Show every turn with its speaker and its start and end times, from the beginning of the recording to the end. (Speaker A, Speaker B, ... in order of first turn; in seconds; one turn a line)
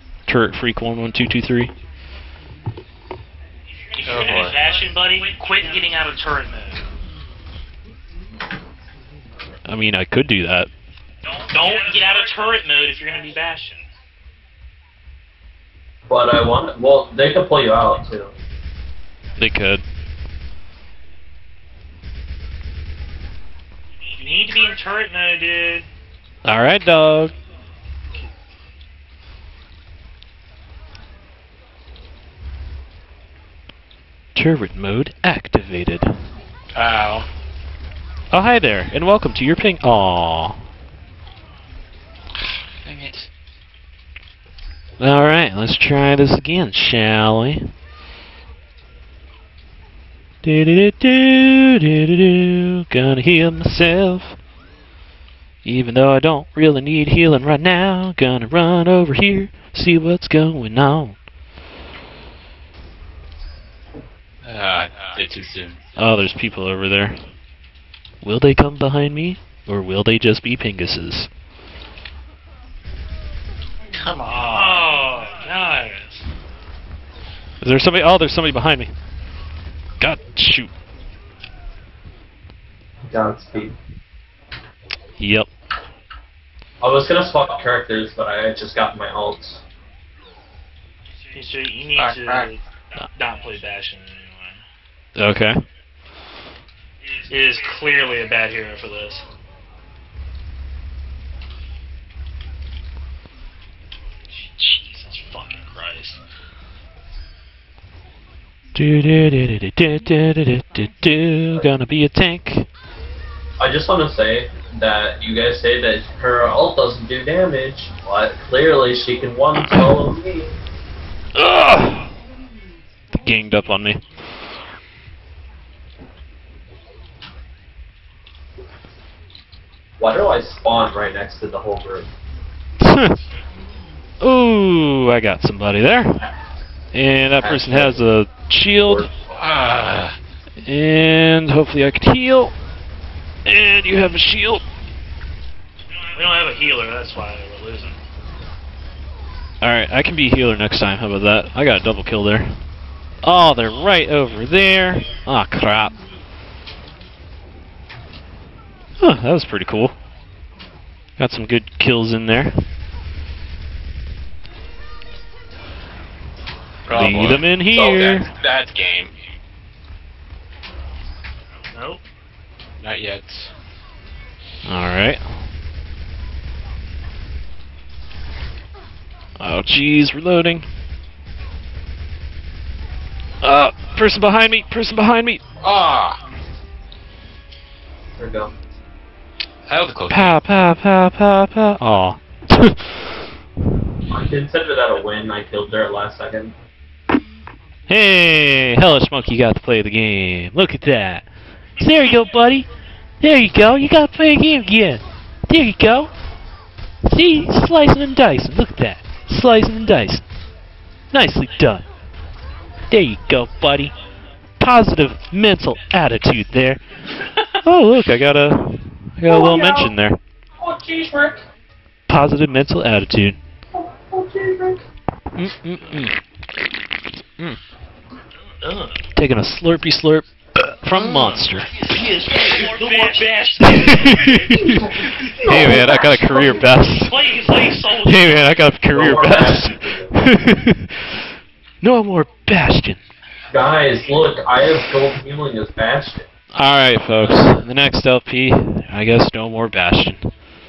Speaker A: 0.3-1.7
Speaker B: 4.0-6.8
Speaker C: 4.0-4.6
Speaker A: 9.7-10.7
Speaker B: 11.5-13.8
Speaker D: 16.1-18.3
Speaker A: 19.4-19.8
Speaker B: 24.2-25.9
Speaker A: 26.4-27.3
Speaker A: 34.3-36.1
Speaker C: 36.7-37.3
Speaker A: 38.3-40.6
Speaker C: 42.8-43.3
Speaker A: 45.0-47.7
Speaker A: 50.4-54.4
Speaker A: 55.6-61.2
Speaker C: 64.4-65.8
Speaker A: 66.0-67.2
Speaker A: 68.2-71.3
Speaker C: 73.9-75.0
Speaker B: 74.3-76.2
Speaker A: 77.6-78.9
Speaker A: 80.0-80.7
Speaker D: 83.1-83.7
Speaker A: 85.2-85.5
Speaker D: 86.8-89.6
Speaker B: 91.3-92.6
Speaker C: 91.9-92.5
Speaker B: 93.1-94.6
Speaker A: 95.2-95.6
Speaker B: 97.3-99.2
Speaker B: 104.6-106.2
Speaker A: 108.7-112.7
Speaker D: 113.6-120.6
Speaker A: 119.5-120.0
Speaker A: 121.3-122.1
Speaker A: 123.2-124.0
Speaker D: 130.0-132.1
Speaker A: 132.8-133.2
Speaker A: 134.2-136.2
Speaker A: 136.9-139.1
Speaker D: 137.3-138.1
Speaker D: 138.8-139.5
Speaker C: 139.3-140.2
Speaker A: 140.6-142.5
Speaker A: 143.4-144.6
Speaker B: 146.1-148.0
Speaker A: 149.6-152.5
Speaker A: 153.2-155.9
Speaker A: 159.0-159.9
Speaker A: 161.2-162.5
Speaker C: 166.8-169.1
Speaker A: 166.9-168.3
Speaker B: 171.7-172.0
Speaker C: 172.8-173.5
Speaker A: 174.7-175.2
Speaker A: 179.4-180.6
Speaker A: 183.4-185.4
Speaker C: 185.6-186.2
Speaker D: 188.2-188.5
Speaker C: 189.7-190.4
Speaker A: 190.1-193.2
Speaker D: 194.1-196.5
Speaker A: 197.9-201.2
Speaker A: 201.8-202.7
Speaker A: 203.2-206.1
Speaker A: 207.1-210.2
Speaker A: 211.1-211.8
Speaker A: 212.9-213.9
Speaker A: 214.6-216.8
Speaker A: 217.6-220.2
Speaker E: 219.3-219.9
Speaker E: 220.6-221.4
Speaker A: 222.1-223.4
Speaker E: 223.8-224.8
Speaker A: 225.3-226.1
Speaker B: 228.6-229.0
Speaker A: 229.2-231.7
Speaker B: 230.9-234.4
Speaker A: 233.6-237.1
Speaker E: 234.3-236.7
Speaker B: 237.0-238.3
Speaker A: 237.9-241.1
Speaker D: 238.9-240.1
Speaker A: 241.8-243.0
Speaker D: 243.5-246.3
Speaker A: 246.5-250.2